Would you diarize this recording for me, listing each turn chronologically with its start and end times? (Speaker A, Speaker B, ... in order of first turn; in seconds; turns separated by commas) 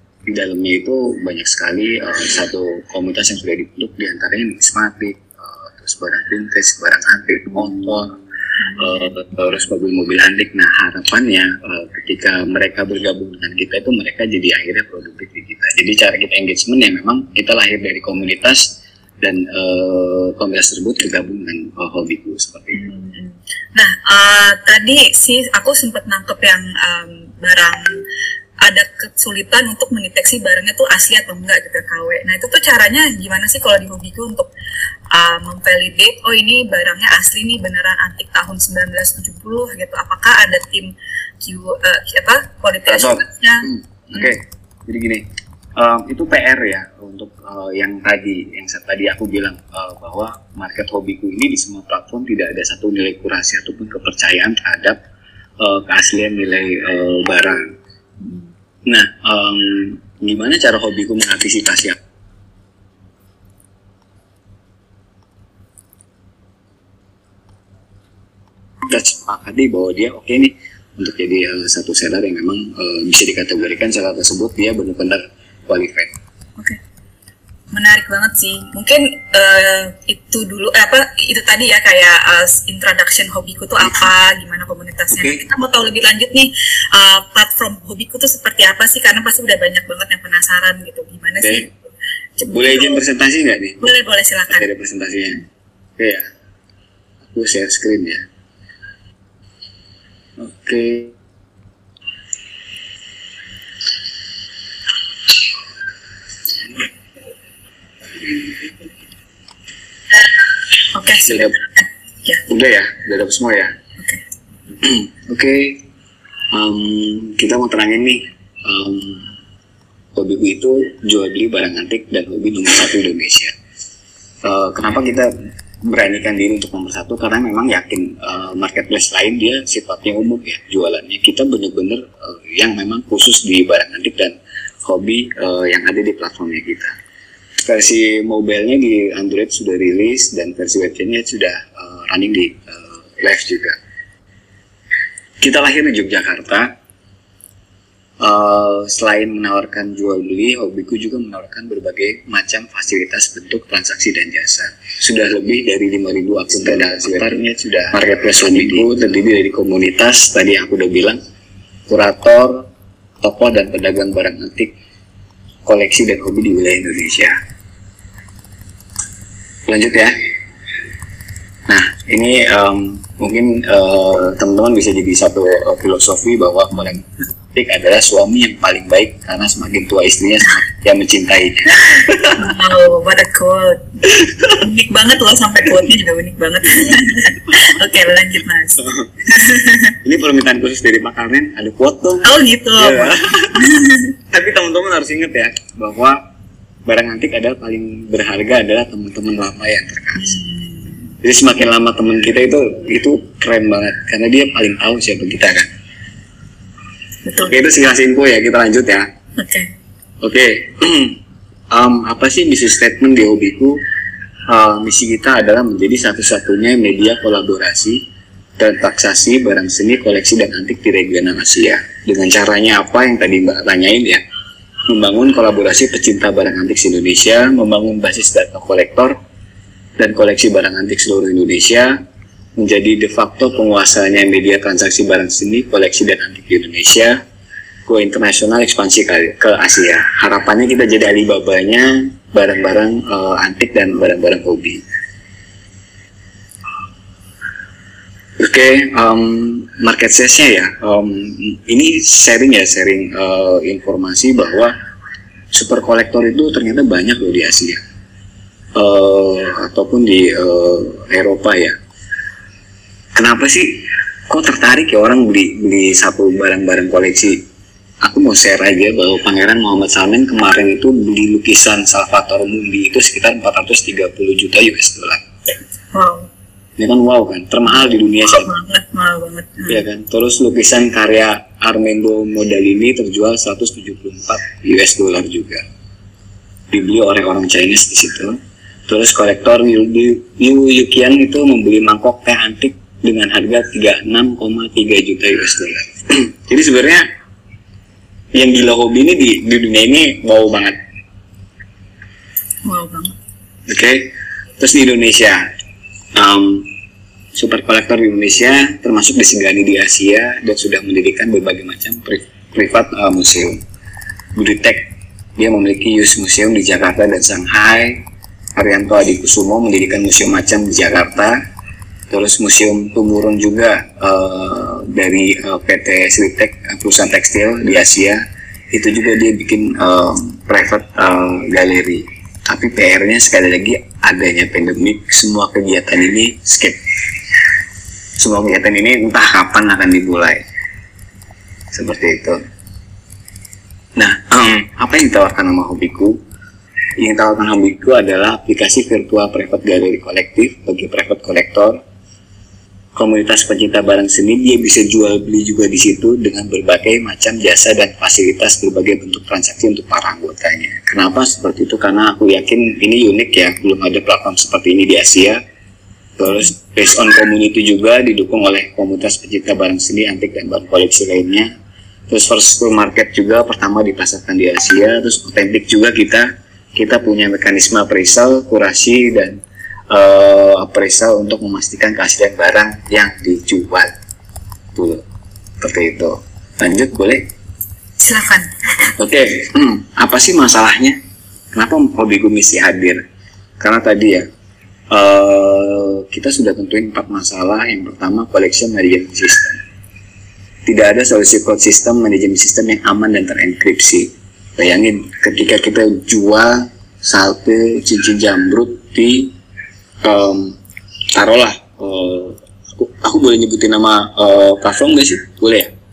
Speaker A: 0.2-8.1, Speaker A: 8.7-22.8, Speaker B: 22.7-28.0, Speaker B: 28.6-34.5, Speaker B: 35.1-44.3, Speaker A: 42.9-55.0, Speaker A: 55.6-57.6, Speaker A: 58.9-62.0, Speaker A: 68.9-76.1, Speaker B: 77.7-91.7, Speaker A: 85.1-85.4, Speaker A: 91.4-91.7, Speaker B: 92.4-93.0, Speaker A: 92.5-93.8, Speaker B: 93.8-94.7, Speaker A: 94.5-95.4, Speaker A: 96.0-96.3, Speaker A: 97.2-98.2, Speaker A: 100.4-101.1, Speaker B: 110.9-112.4, Speaker A: 111.2-111.5, Speaker A: 112.4-113.7, Speaker A: 114.8-115.8, Speaker A: 116.5-119.3, Speaker A: 120.1-123.5, Speaker A: 124.4-125.3, Speaker A: 125.8-136.9, Speaker A: 137.6-143.8, Speaker A: 145.4-146.7, Speaker A: 148.2-161.2, Speaker A: 161.9-162.7, Speaker A: 163.2-164.7, Speaker A: 165.6-167.4, Speaker A: 169.7-170.3, Speaker A: 171.7-181.9, Speaker B: 182.3-183.8, Speaker B: 184.6-189.9, Speaker A: 190.0-193.7, Speaker B: 192.2-194.1, Speaker A: 194.3-196.2, Speaker A: 196.8-200.3, Speaker B: 200.2-201.1, Speaker A: 201.2-205.7, Speaker B: 207.2-207.6, Speaker A: 207.4-209.1, Speaker B: 209.4-209.7, Speaker A: 210.2-211.2, Speaker A: 211.7-213.8, Speaker A: 214.5-218.0, Speaker A: 218.6-224.2, Speaker A: 224.9-229.2, Speaker A: 230.0-232.0, Speaker A: 232.6-237.2, Speaker A: 237.8-244.8, Speaker A: 248.4-254.7, Speaker A: 255.5-257.8, Speaker A: 258.7-261.8, Speaker A: 263.1-267.4, Speaker A: 268.0-275.2, Speaker B: 275.9-276.3, Speaker A: 276.8-278.5, Speaker B: 278.2-279.8, Speaker A: 279.7-285.6, Speaker A: 286.7-297.1, Speaker A: 298.3-300.8, Speaker B: 302.6-303.1, Speaker A: 303.7-305.4, Speaker A: 306.1-306.7, Speaker A: 307.3-313.6, Speaker A: 314.3-318.0, Speaker A: 318.6-321.4, Speaker A: 322.1-336.8, Speaker A: 338.2-340.4, Speaker A: 341.7-342.4, Speaker A: 343.9-346.2, Speaker A: 347.0-351.8, Speaker A: 352.9-365.4, Speaker A: 366.2-371.5, Speaker A: 372.1-383.9, Speaker A: 384.7-385.0, Speaker A: 385.6-387.3, Speaker B: 388.0-388.5, Speaker A: 388.9-391.0, Speaker A: 391.5-393.0, Speaker A: 393.6-394.3, Speaker A: 394.9-399.6, Speaker A: 400.6-409.3, Speaker A: 410.0-410.6, Speaker A: 411.1-415.7